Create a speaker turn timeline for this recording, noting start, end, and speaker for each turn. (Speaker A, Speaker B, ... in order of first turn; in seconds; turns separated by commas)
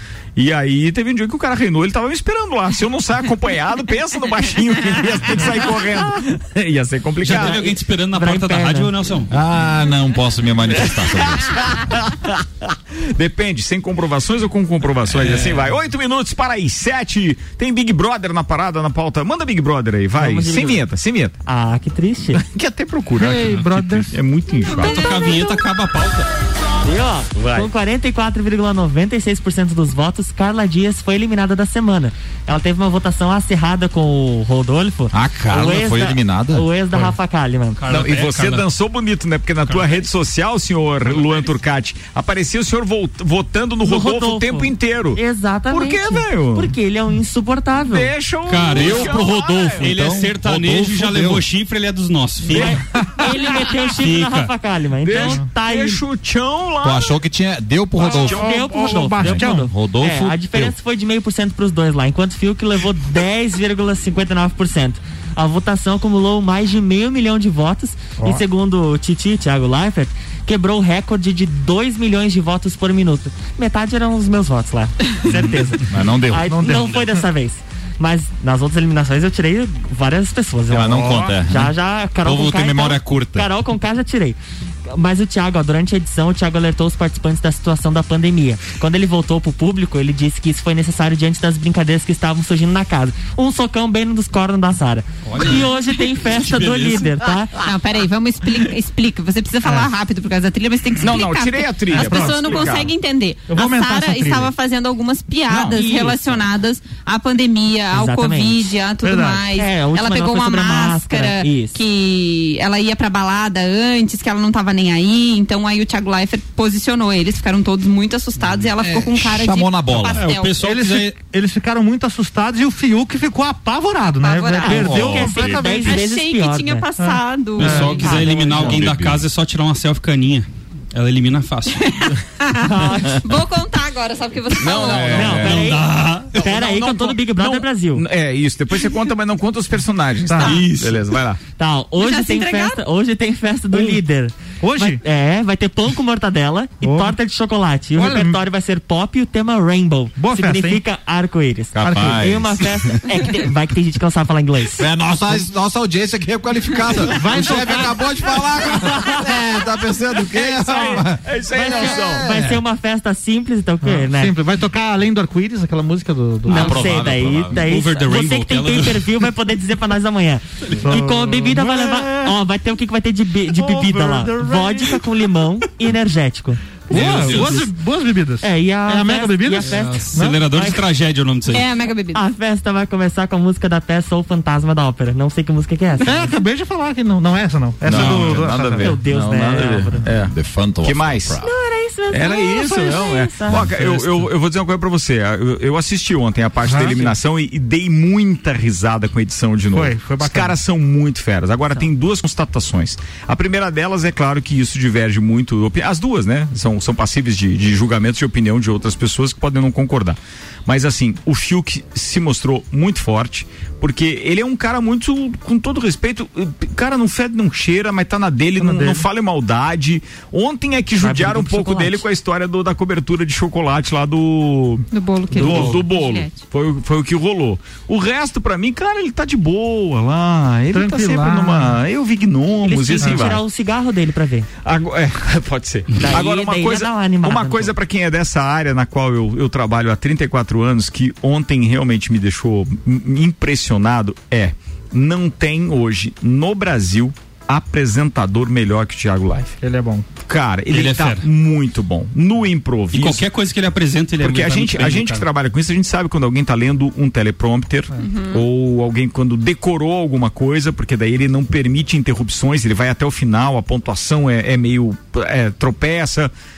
Speaker A: 0.4-7.8, Speaker B: 7.2-9.3, Speaker C: 8.1-8.9, Speaker D: 9.3-11.6, Speaker A: 10.8-21.4, Speaker B: 15.1-15.7, Speaker C: 20.2-20.8, Speaker C: 21.4-22.4, Speaker A: 22.4-25.1, Speaker E: 23.2-24.1, Speaker B: 24.7-26.3, Speaker C: 26.8-37.8, Speaker A: 27.4-27.7, Speaker D: 35.1-36.7, Speaker B: 37.8-38.7, Speaker A: 37.9-46.7, Speaker B: 39.7-40.0, Speaker B: 41.0-41.5, Speaker C: 43.8-48.1, Speaker A: 47.8-49.9, Speaker B: 48.5-52.8, Speaker D: 48.8-51.5, Speaker A: 52.5-52.8, Speaker C: 52.5-56.0, Speaker B: 54.0-54.5, Speaker A: 55.0-57.2, Speaker D: 56.8-58.6, Speaker A: 58.0-59.1, Speaker E: 58.0-59.7, Speaker C: 58.2-97.5, Speaker D: 59.2-60.8, Speaker A: 75.3-75.6, Speaker D: 75.9-76.5, Speaker E: 76.6-76.9, Speaker B: 76.7-77.1, Speaker D: 80.7-83.5, Speaker B: 95.3-97.1, Speaker F: 97.6-120.6, Speaker A: 101.0-102.9, Speaker E: 101.9-102.6, Speaker E: 103.5-104.5, Speaker E: 105.6-106.1, Speaker C: 105.7-106.3, Speaker C: 107.9-108.7, Speaker E: 109.0-109.4, Speaker C: 109.5-111.8, Speaker D: 118.8-120.3, Speaker B: 120.2-121.1, Speaker E: 120.6-126.1, Speaker F: 124.2-128.2, Speaker C: 124.6-126.8, Speaker D: 124.8-125.6, Speaker E: 127.0-128.0, Speaker B: 127.6-131.9, Speaker C: 127.9-128.8, Speaker D: 128.0-129.3, Speaker F: 131.9-135.3, Speaker C: 132.7-133.2, Speaker A: 134.6-135.7, Speaker C: 135.0-138.0, Speaker D: 135.1-135.6, Speaker B: 135.3-136.3, Speaker A: 136.3-141.4, Speaker E: 140.3-140.7, Speaker B: 140.4-141.0, Speaker C: 141.6-154.9, Speaker F: 142.0-142.8, Speaker E: 143.7-144.0, Speaker E: 144.6-145.0, Speaker E: 146.8-147.2, Speaker E: 148.0-148.4, Speaker E: 150.2-150.8, Speaker D: 151.8-153.0, Speaker E: 151.8-152.3, Speaker D: 154.8-161.2, Speaker E: 157.0-158.5, Speaker A: 160.4-162.3, Speaker E: 161.5-162.6, Speaker C: 161.6-164.3, Speaker E: 163.8-166.9, Speaker C: 166.5-177.7, Speaker D: 166.5-167.6, Speaker B: 167.6-169.1, Speaker E: 170.8-172.3, Speaker E: 173.5-175.0, Speaker E: 176.9-180.5, Speaker B: 176.9-177.7, Speaker C: 178.4-180.8, Speaker B: 179.6-181.7, Speaker F: 181.5-182.2, Speaker C: 182.1-186.4, Speaker E: 186.0-188.9, Speaker B: 187.9-188.5, Speaker D: 187.9-191.4, Speaker A: 187.9-191.4, Speaker C: 188.8-190.1, Speaker C: 191.4-194.0, Speaker A: 192.1-233.4, Speaker E: 196.6-197.1, Speaker E: 199.7-200.6, Speaker E: 218.6-219.1, Speaker C: 221.0-222.0, Speaker F: 224.9-226.4, Speaker E: 225.3-225.8, Speaker E: 230.7-231.8, Speaker C: 232.6-234.5, Speaker E: 233.0-233.3, Speaker A: 234.7-249.6, Speaker B: 235.9-236.2, Speaker C: 236.0-237.7, Speaker E: 249.6-250.1, Speaker A: 250.3-253.2, Speaker B: 250.7-251.2, Speaker B: 252.9-255.3, Speaker A: 254.2-266.3, Speaker F: 258.0-258.4